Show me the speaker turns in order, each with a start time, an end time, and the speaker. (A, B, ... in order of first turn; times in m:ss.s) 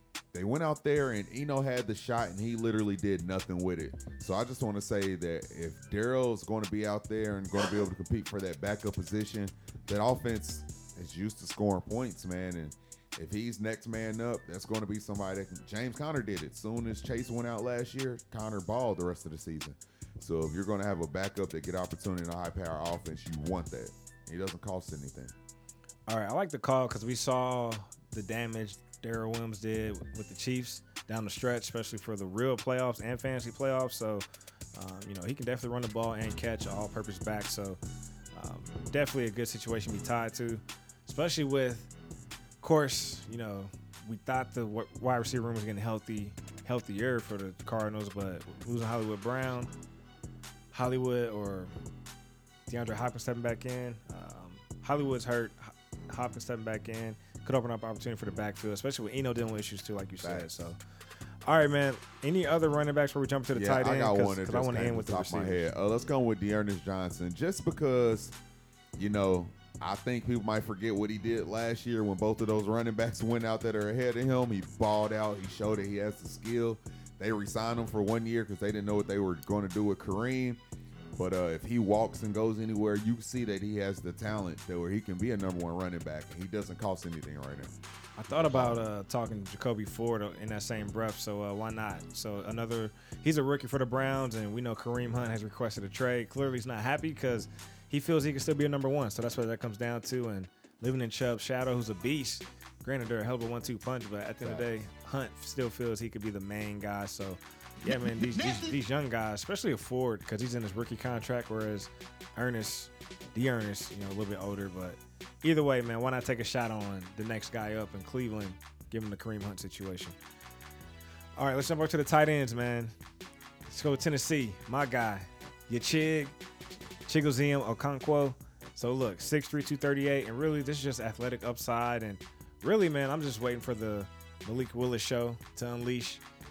0:00.3-0:25.3 A
0:26.1-0:37.8 B
0:38.3-0:41.9 B
0:42.6-0:49.7 B
0:50.7-0:51.7 B
0:52.7-1:00.8 B
1:00.2-1:00.7 A
1:01.4-1:05.7 B
1:03.5-1:08.3 A
1:09.0-1:20.6 A
1:21.2-1:27.7 A
1:28.2-2:00.2 B
1:28.3-1:28.8 A
1:44.4-1:44.7 A
2:01.4-2:02.9 B
2:03.7-2:06.3 B
2:07.0-2:16.2 B